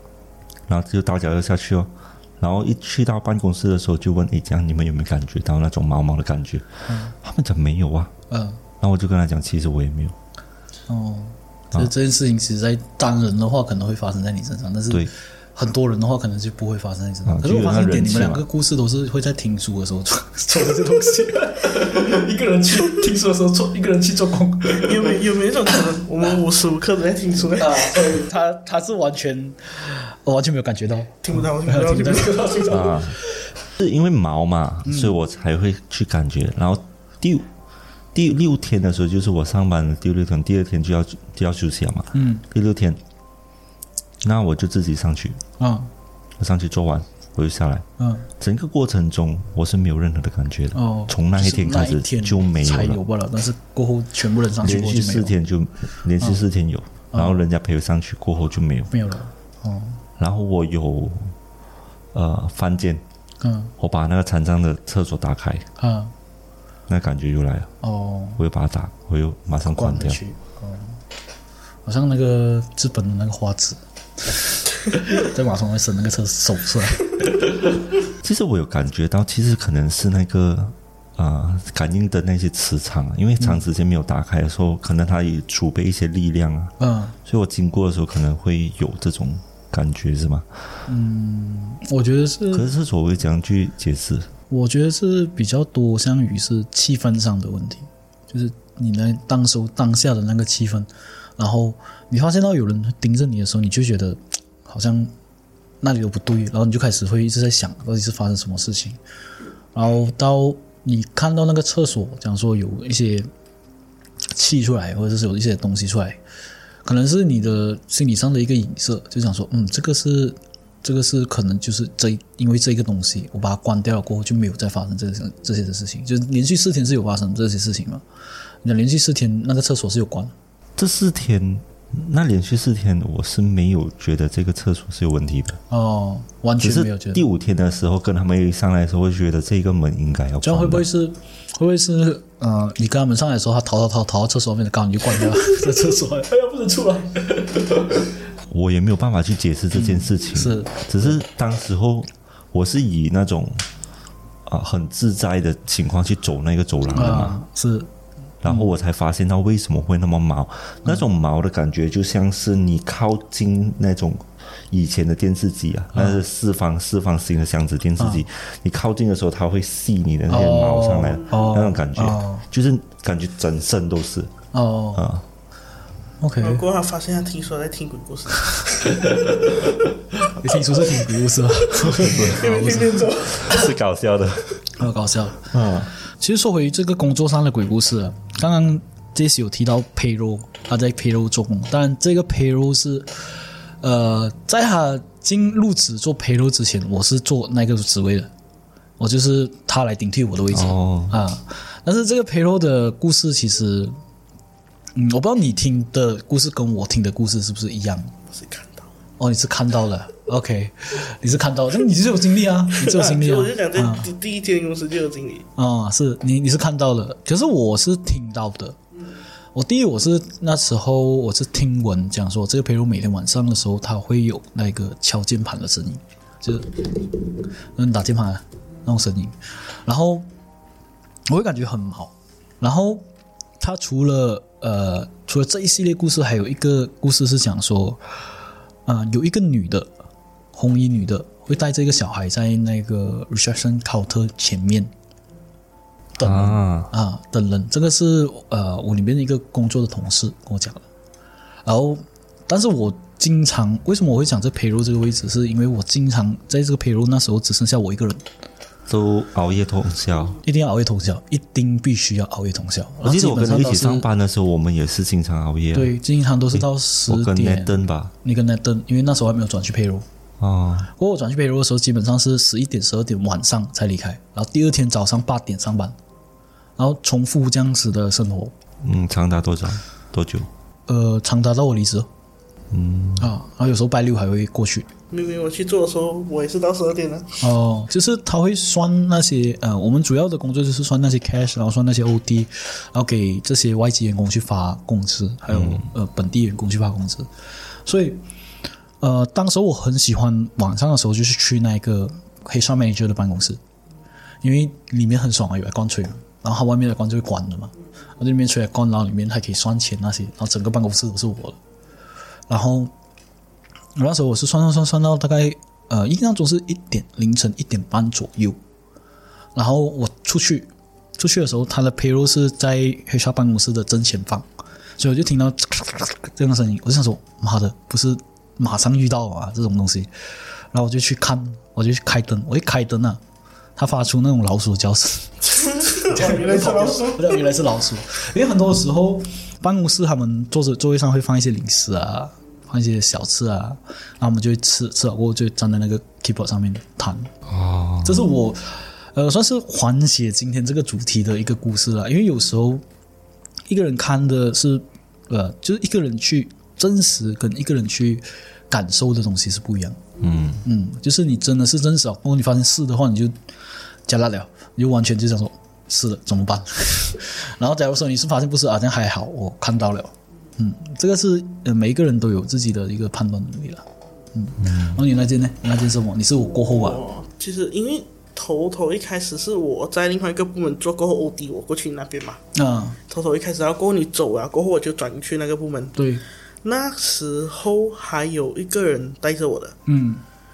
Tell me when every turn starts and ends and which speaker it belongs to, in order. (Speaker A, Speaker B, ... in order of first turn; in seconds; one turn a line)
Speaker A: 0.7-6.7
Speaker B: 6.9-7.1
Speaker A: 7.2-8.1
Speaker B: 8.3-8.6
Speaker A: 8.8-10.1
Speaker B: 10.9-25.2
Speaker A: 17.2-18.4
Speaker C: 24.7-28.2
Speaker B: 27.5-33.3
Speaker C: 31.2-32.9
Speaker A: 32.7-33.2
Speaker A: 33.8-37.5
Speaker B: 34.8-35.2
Speaker A: 38.1-43.0
Speaker B: 42.1-42.4
Speaker A: 44.2-45.4
Speaker B: 45.6-45.9
Speaker A: 46.4-47.9
Speaker B: 48.0-48.3
Speaker A: 48.4-53.0
Speaker B: 50.7-55.3
Speaker A: 54.6-58.9
Speaker B: 57.1-57.4
Speaker B: 58.9-60.0
Speaker A: 60.2-61.3
Speaker A: 62.1-63.0
Speaker B: 63.4-63.7
Speaker A: 63.8-65.7
Speaker B: 65.8-66.1
Speaker A: 66.9-67.7
Speaker B: 67.8-68.4
Speaker A: 68.4-70.2
Speaker B: 69.7-71.0
Speaker B: 71.8-77.7
Speaker A: 78.2-90.5
Speaker B: 83.4-83.6
Speaker B: 86.8-87.2
Speaker B: 90.9-92.7
Speaker A: 92.5-94.3
Speaker B: 94.5-105.1
Speaker B: 105.8-109.0
Speaker B: 109.7-113.3
Speaker B: 114.3-116.2
Speaker B: 116.8-128.0
Speaker B: 128.6-130.3
Speaker A: 130.8-135.6
Speaker B: 135.7-137.2
Speaker A: 136.6-140.9
Speaker B: 140.4-148.1
Speaker A: 148.5-153.7
Speaker B: 149.7-151.2
Speaker A: 154.4-157.4
Speaker B: 156.9-157.9
Speaker A: 158.4-174.3
Speaker B: 158.4-158.7
Speaker B: 165.9-166.2
Speaker B: 168.0-168.2
Speaker B: 170.3-172.4
Speaker B: 174.5-175.0
Speaker A: 174.9-175.2
Speaker B: 176.2-176.6
Speaker C: 176.4-179.1
Speaker B: 178.6-179.6
Speaker B: 180.2-183.2
Speaker A: 181.8-182.5
Speaker C: 182.3-183.7
Speaker A: 183.2-184.6
Speaker B: 184.8-185.5
Speaker A: 185.5-185.9
Speaker B: 186.1-198.3
Speaker B: 199.0-203.9
Speaker A: 200.5-201.2
Speaker B: 204.9-208.1
Speaker C: 208.3-208.9
Speaker B: 209.2-214.1
Speaker C: 212.7-215.5
Speaker B: 215.6-218.8
Speaker B: 219.5-227.2
Speaker B: 227.7-230.3
Speaker B: 231.3-233.0
Speaker B: 233.6-238.0
Speaker B: 238.8-239.9
Speaker B: 240.5-244.9
Speaker B: 246.2-250.8
Speaker A: 246.2-246.9
Speaker B: 251.6-258.2
Speaker A: 258.9-260.4
Speaker B: 260.4-264.1
Speaker A: 263.0-265.9
Speaker B: 265.7-270.1
Speaker A: 266.5-268.1
Speaker A: 270.4-270.9
Speaker B: 270.9-275.9
Speaker B: 276.8-278.5
Speaker A: 278.8-280.5
Speaker B: 280.9-282.1
Speaker A: 282.7-283.3
Speaker B: 283.2-284.9
Speaker C: 285.1-287.4
Speaker B: 287.4-297.3
Speaker A: 295.5-295.9
Speaker B: 297.8-298.2
Speaker B: 299.0-303.6
Speaker B: 304.4-311.6
Speaker B: 312.5-312.9
Speaker B: 313.9-318.6
Speaker B: 319.5-330.1
Speaker B: 330.7-333.2
Speaker B: 333.8-347.3
Speaker C: 335.5-337.4
Speaker A: 347.4-348.3
Speaker B: 348.0-352.8
Speaker B: 353.7-360.1
Speaker A: 360.2-360.6
Speaker B: 360.6-363.4
Speaker B: 364.1-377.0
Speaker A: 374.6-375.0
Speaker C: 376.7-382.4
Speaker B: 382.5-383.0
Speaker C: 383.1-386.0
Speaker B: 385.9-386.2
Speaker C: 386.6-389.8
Speaker B: 389.9-390.2